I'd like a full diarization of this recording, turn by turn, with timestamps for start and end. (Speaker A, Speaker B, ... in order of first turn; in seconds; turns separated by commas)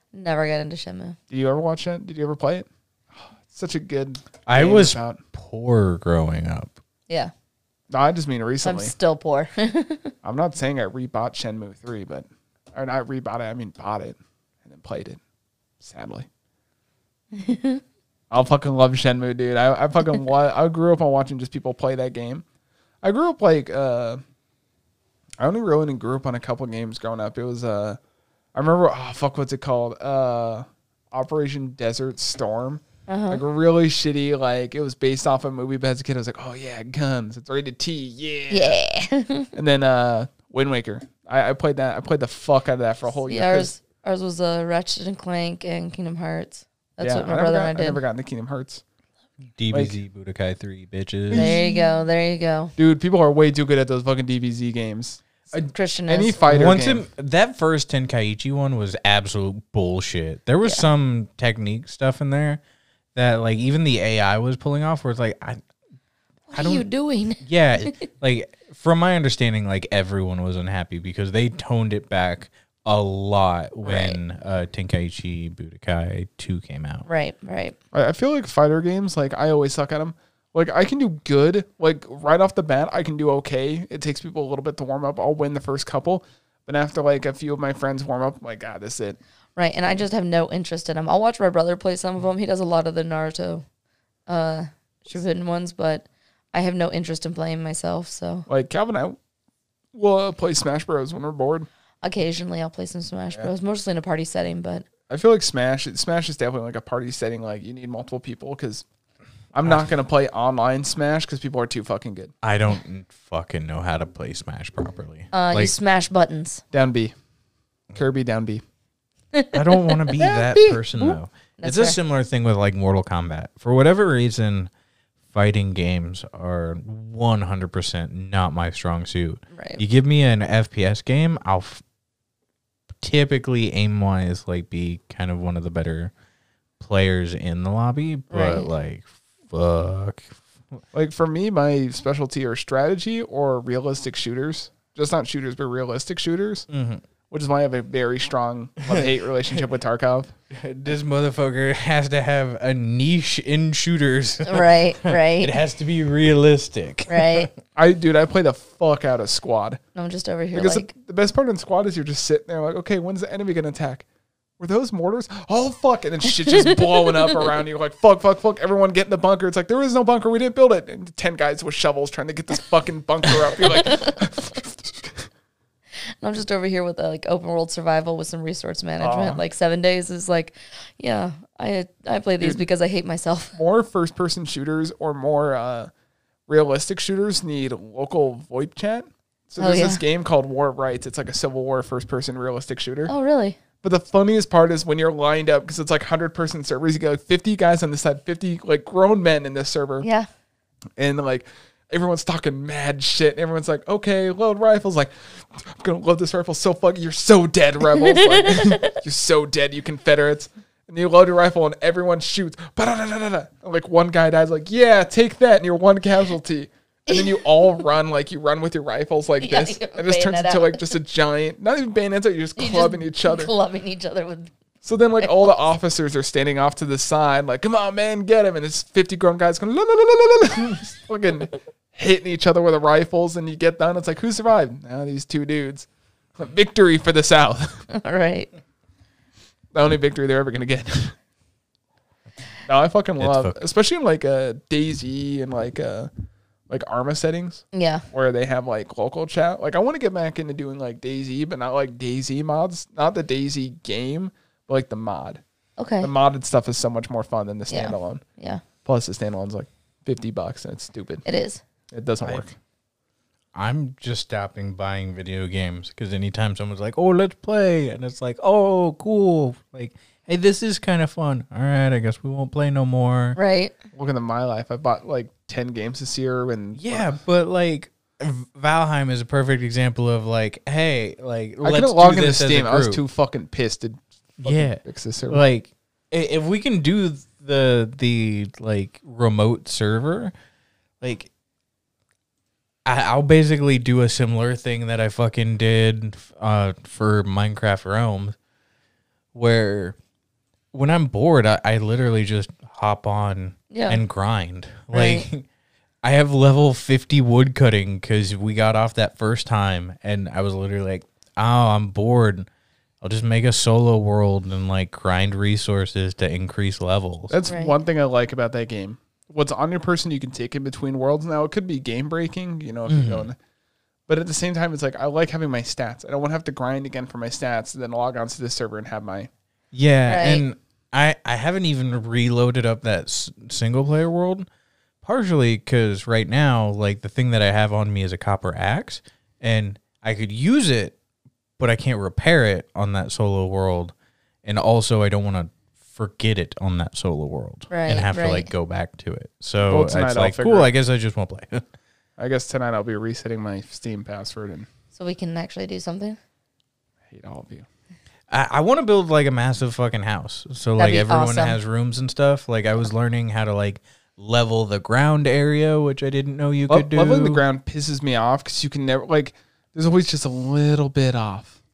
Speaker A: 0.1-1.2, Speaker B: 1.3-5.2, Speaker C: 4.5-6.7, Speaker B: 7.9-8.9, Speaker A: 8.6-10.1, Speaker B: 10.2-15.2, Speaker B: 15.8-16.3, Speaker A: 17.3-17.8, Speaker B: 18.3-22.4, Speaker B: 23.0-24.2, Speaker B: 25.4-28.0, Speaker B: 28.5-38.8, Speaker A: 33.1-33.4, Speaker A: 38.5-39.5, Speaker B: 39.5-43.7, Speaker A: 43.3-48.0, Speaker B: 47.0-48.8, Speaker C: 49.5-51.6, Speaker B: 51.3-51.9, Speaker A: 51.3-52.7, Speaker B: 52.8-57.1, Speaker A: 55.5-56.5, Speaker C: 56.5-62.6, Speaker C: 63.1-65.6, Speaker A: 66.5-68.0, Speaker C: 66.5-66.9, Speaker C: 67.4-77.0, Speaker A: 73.8-74.2, Speaker A: 77.0-77.8, Speaker B: 77.9-89.2, Speaker A: 89.5-93.6, Speaker A: 94.3-98.5, Speaker B: 98.5-99.2, Speaker B: 99.9-101.7, Speaker A: 102.0-104.8, Speaker B: 105.1-108.8, Speaker B: 109.5-112.3, Speaker C: 112.4-115.7, Speaker A: 115.3-116.6, Speaker B: 116.7-117.1, Speaker B: 117.9-118.6, Speaker A: 119.3-120.0, Speaker C: 119.5-124.7, Speaker B: 120.2-121.1, Speaker A: 121.6-122.0, Speaker C: 125.3-131.8, Speaker A: 129.5-129.8, Speaker C: 133.0-136.1, Speaker C: 136.8-140.8, Speaker A: 138.3-138.7, Speaker B: 140.9-146.7, Speaker C: 146.7-147.0, Speaker B: 147.3-150.3, Speaker C: 150.5-157.5, Speaker A: 154.4-155.5, Speaker A: 157.1-157.5, Speaker B: 157.8-159.8, Speaker A: 159.9-160.9, Speaker B: 160.5-164.1, Speaker B: 164.6-175.2, Speaker A: 166.5-167.3, Speaker A: 173.6-174.2, Speaker A: 176.2-183.5, Speaker B: 179.0-179.4, Speaker B: 183.5-185.9, Speaker B: 186.5-193.1, Speaker A: 189.6-190.0, Speaker A: 193.1-193.6, Speaker B: 193.8-200.1, Speaker A: 200.0-200.3, Speaker B: 201.0-223.5, Speaker A: 207.9-209.0, Speaker A: 217.1-217.7, Speaker A: 219.4-220.9, Speaker A: 222.6-224.5, Speaker B: 224.8-237.8, Speaker A: 225.2-225.5, Speaker A: 237.9-238.5, Speaker B: 239.7-241.1, Speaker B: 242.7-246.1, Speaker C: 243.2-243.6, Speaker B: 246.7-255.4, Speaker A: 247.7-248.0, Speaker A: 255.8-256.1, Speaker B: 256.0-258.2, Speaker A: 257.7-258.6, Speaker B: 258.8-261.2, Speaker A: 261.2-261.6, Speaker B: 261.9-262.5, Speaker C: 263.5-273.4, Speaker A: 273.4-273.7, Speaker B: 273.9-277.2, Speaker C: 276.8-283.0, Speaker B: 281.6-285.4, Speaker C: 284.4-290.3, Speaker C: 291.0-291.3, Speaker C: 292.8-298.4, Speaker C: 299.3-299.9, Speaker C: 300.7-305.4, Speaker A: 303.7-304.0, Speaker A: 304.9-305.3, Speaker C: 306.0-312.5, Speaker C: 313.0-317.3, Speaker B: 317.3-323.4, Speaker A: 317.5-317.8, Speaker C: 322.9-323.3, Speaker B: 324.1-329.3, Speaker C: 329.7-334.4, Speaker A: 330.1-330.4, Speaker C: 335.0-340.9, Speaker C: 341.6-343.9, Speaker C: 344.4-351.6, Speaker A: 347.7-348.5, Speaker B: 349.6-350.7, Speaker B: 352.2-354.7, Speaker A: 354.9-356.2, Speaker B: 357.1-357.6, Speaker C: 358.3-367.4, Speaker A: 360.8-361.6, Speaker B: 366.7-371.6